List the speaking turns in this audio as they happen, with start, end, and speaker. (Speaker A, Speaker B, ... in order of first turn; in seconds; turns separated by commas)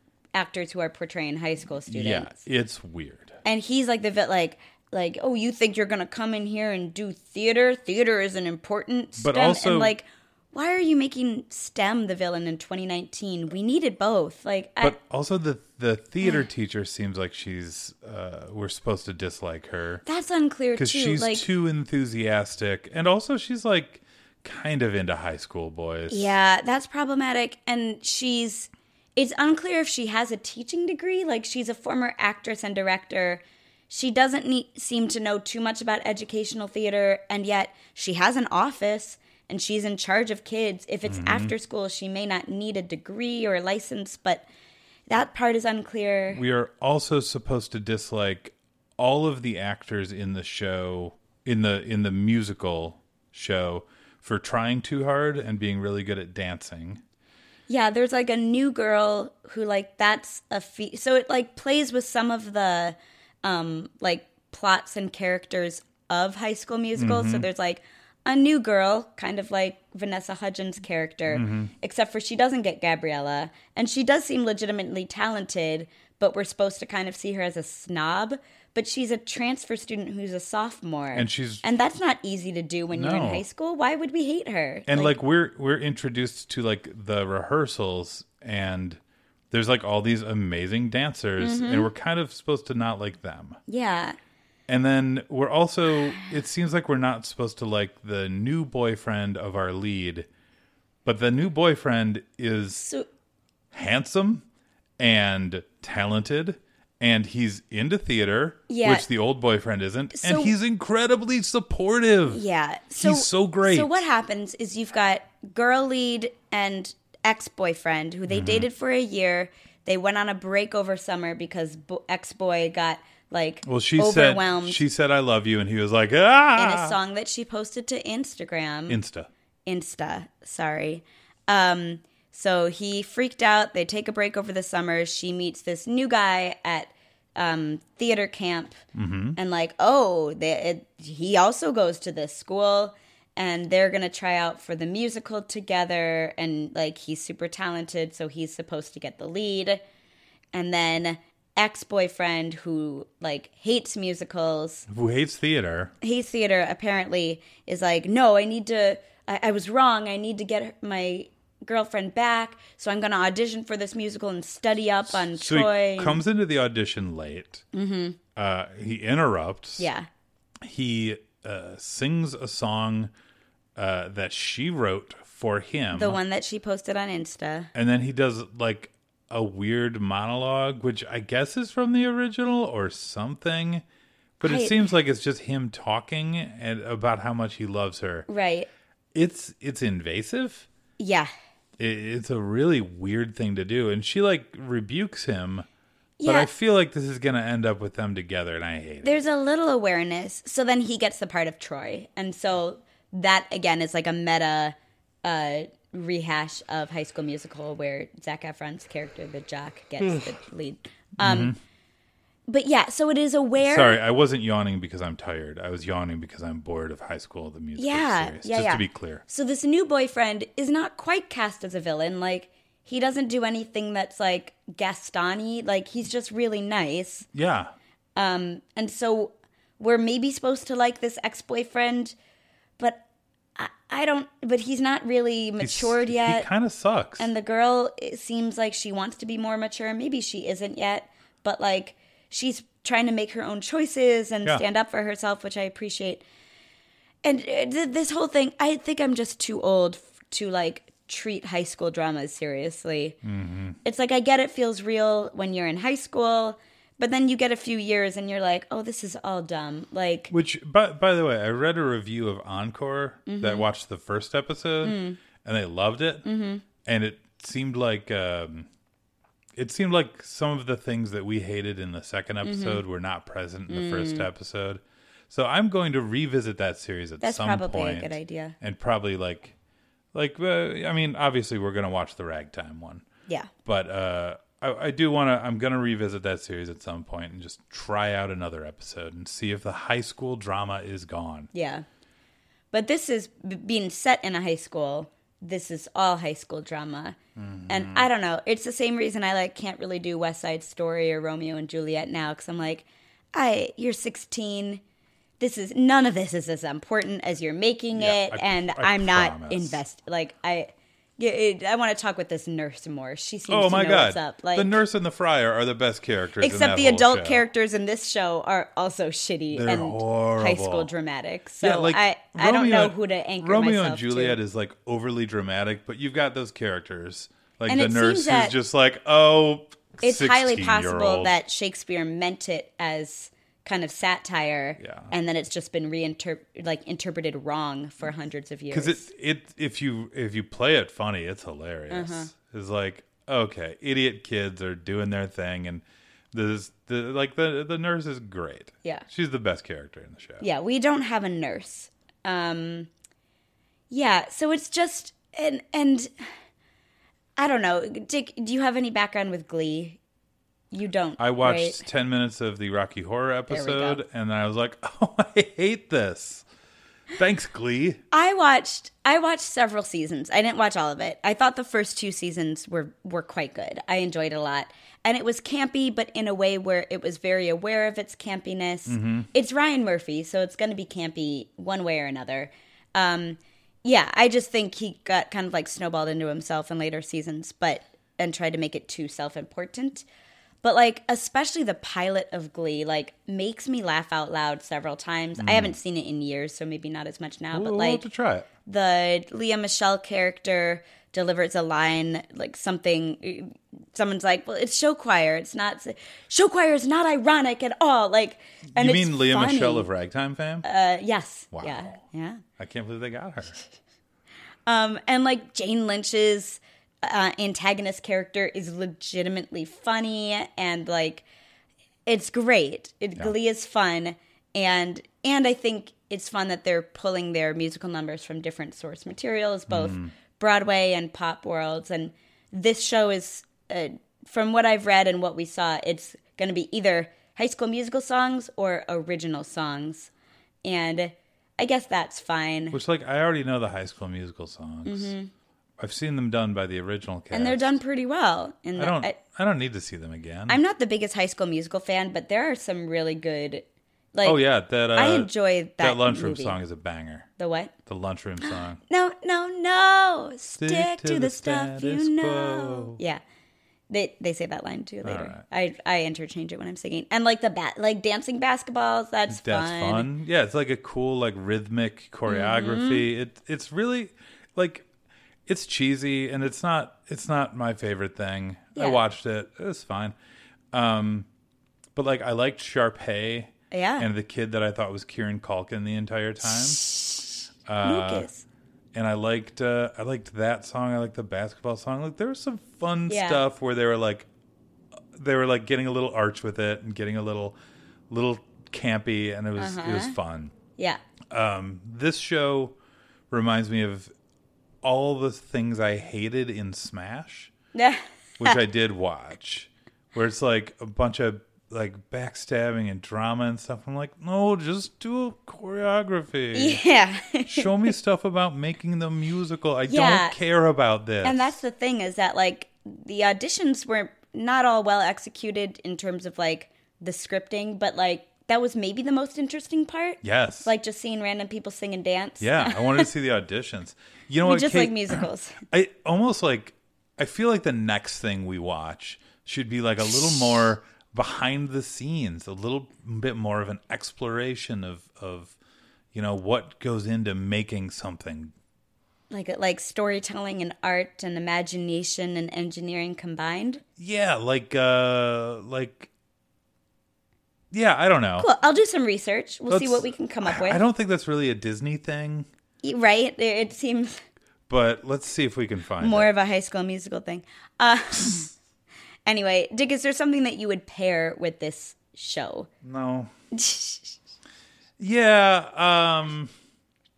Speaker A: 0.3-2.4, Speaker B: 1.9-3.4, Speaker A: 3.4-14.9, Speaker B: 9.2-9.9, Speaker B: 14.8-20.0, Speaker A: 20.0-21.4, Speaker B: 20.8-26.3, Speaker A: 26.1-44.4, Speaker B: 41.0-41.5, Speaker A: 45.1-46.4, Speaker B: 46.3-57.0, Speaker A: 57.7-85.2, Speaker B: 67.0-67.5, Speaker B: 71.3-71.7, Speaker B: 81.1-81.6, Speaker B: 82.9-83.4, Speaker B: 84.9-89.0, Speaker B: 89.5-93.6, Speaker A: 91.4-91.9, Speaker A: 93.7-94.2, Speaker B: 94.7-100.3, Speaker B: 101.0-102.9, Speaker A: 102.8-103.1, Speaker B: 103.7-104.4, Speaker B: 105.0-112.4, Speaker A: 108.7-109.0, Speaker A: 110.1-110.5, Speaker A: 112.3-124.8, Speaker B: 113.0-114.0, Speaker B: 118.3-118.7, Speaker B: 123.6-127.0, Speaker A: 126.5-129.0, Speaker B: 128.9-129.3, Speaker A: 129.7-138.8, Speaker B: 138.9-139.4, Speaker A: 139.4-149.8, Speaker A: 150.5-154.9, Speaker B: 154.9-155.9, Speaker A: 156.0-166.2, Speaker B: 165.3-167.6, Speaker A: 167.7-168.2, Speaker B: 168.3-169.9, Speaker A: 169.8-170.1, Speaker B: 170.6-173.1, Speaker B: 173.8-176.2, Speaker A: 175.9-177.7, Speaker B: 177.7-183.8, Speaker B: 184.4-188.3, Speaker A: 184.4-184.9, Speaker A: 188.3-188.7, Speaker B: 189.1-190.7, Speaker A: 191.0-191.3, Speaker B: 191.8-195.7, Speaker A: 196.2-196.5, Speaker B: 196.2-199.1, Speaker A: 199.0-211.5, Speaker B: 211.2-211.6, Speaker A: 212.5-214.0, Speaker B: 213.6-219.2, Speaker A: 217.8-227.3, Speaker B: 227.3-227.7, Speaker A: 228.2-232.1, Speaker A: 233.6-236.5, Speaker B: 235.6-237.3, Speaker A: 237.2-246.2, Speaker A: 247.2-253.2, Speaker B: 253.2-253.8, Speaker A: 253.8-260.3, Speaker B: 260.3-266.2, Speaker A: 263.3-263.7, Speaker A: 264.8-265.2, Speaker A: 266.2-266.6, Speaker B: 266.8-268.7, Speaker B: 269.6-279.5, Speaker A: 272.4-272.8, Speaker A: 273.7-274.3, Speaker A: 277.2-278.6, Speaker B: 280.1-283.1, Speaker B: 283.6-291.5, Speaker A: 291.5-291.8, Speaker A: 292.7-297.2, Speaker B: 297.4-298.1, Speaker A: 297.7-304.8, Speaker A: 305.4-314.8, Speaker B: 307.9-309.8, Speaker B: 313.5-317.4, Speaker A: 316.4-324.4, Speaker B: 319.5-320.9, Speaker B: 321.6-331.3, Speaker A: 327.7-328.5, Speaker A: 330.0-339.1, Speaker B: 334.8-335.1, Speaker B: 338.7-350.4, Speaker A: 341.9-342.3, Speaker A: 350.4-352.9, Speaker A: 353.9-356.1, Speaker A: 357.4-360.0, Speaker A: 360.7-361.8, Speaker B: 361.2-366.4, Speaker A: 363.5-364.0, Speaker B: 367.1-368.0, Speaker A: 368.1-390.0, Speaker B: 378.9-379.3, Speaker A: 390.6-398.0, Speaker B: 395.4-395.7, Speaker B: 397.5-398.5, Speaker A: 398.6-409.9, Speaker B: 408.7-410.6, Speaker A: 410.6-412.4, Speaker B: 411.5-411.9, Speaker B: 412.6-413.6, Speaker A: 414.6-421.2, Speaker A: 422.1-440.1, Speaker B: 429.7-430.1, Speaker A: 440.6-442.8, Speaker B: 442.7-445.1, Speaker A: 444.8-445.3, Speaker B: 445.8-447.7, Speaker A: 447.3-449.2, Speaker B: 448.8-450.6, Speaker A: 450.5-454.4, Speaker B: 454.2-457.3, Speaker A: 454.9-456.6, Speaker A: 457.4-457.7, Speaker B: 457.9-458.8, Speaker A: 458.4-463.2, Speaker B: 460.6-463.0, Speaker A: 463.9-470.1, Speaker B: 465.0-465.4, Speaker B: 469.3-474.9, Speaker A: 472.3-473.1, Speaker B: 475.4-480.1, Speaker A: 478.8-479.0, Speaker B: 480.7-481.3, Speaker B: 481.9-486.8, Speaker A: 483.7-484.1, Speaker A: 486.5-488.4, Speaker B: 487.7-488.3, Speaker B: 488.9-494.3, Speaker A: 493.1-493.4, Speaker B: 495.1-497.6, Speaker B: 498.1-500.5, Speaker A: 499.6-500.1, Speaker B: 501.3-502.8, Speaker B: 503.3-504.1, Speaker B: 504.8-507.5, Speaker A: 507.7-508.6, Speaker B: 508.4-516.8, Speaker A: 516.5-517.7, Speaker B: 517.5-521.6, Speaker A: 519.9-520.4, Speaker A: 521.2-533.1, Speaker B: 530.2-530.7, Speaker B: 532.4-545.5, Speaker A: 534.4-535.6, Speaker B: 546.1-548.5, Speaker A: 549.3-553.8, Speaker B: 554.0-556.1, Speaker B: 557.7-558.5, Speaker A: 558.4-560.8, Speaker B: 559.7-562.5, Speaker A: 562.8-564.2, Speaker B: 564.7-566.3, Speaker A: 566.0-568.5, Speaker A: 569.2-572.7, Speaker B: 572.8-573.3, Speaker A: 573.5-574.1, Speaker B: 575.0-576.5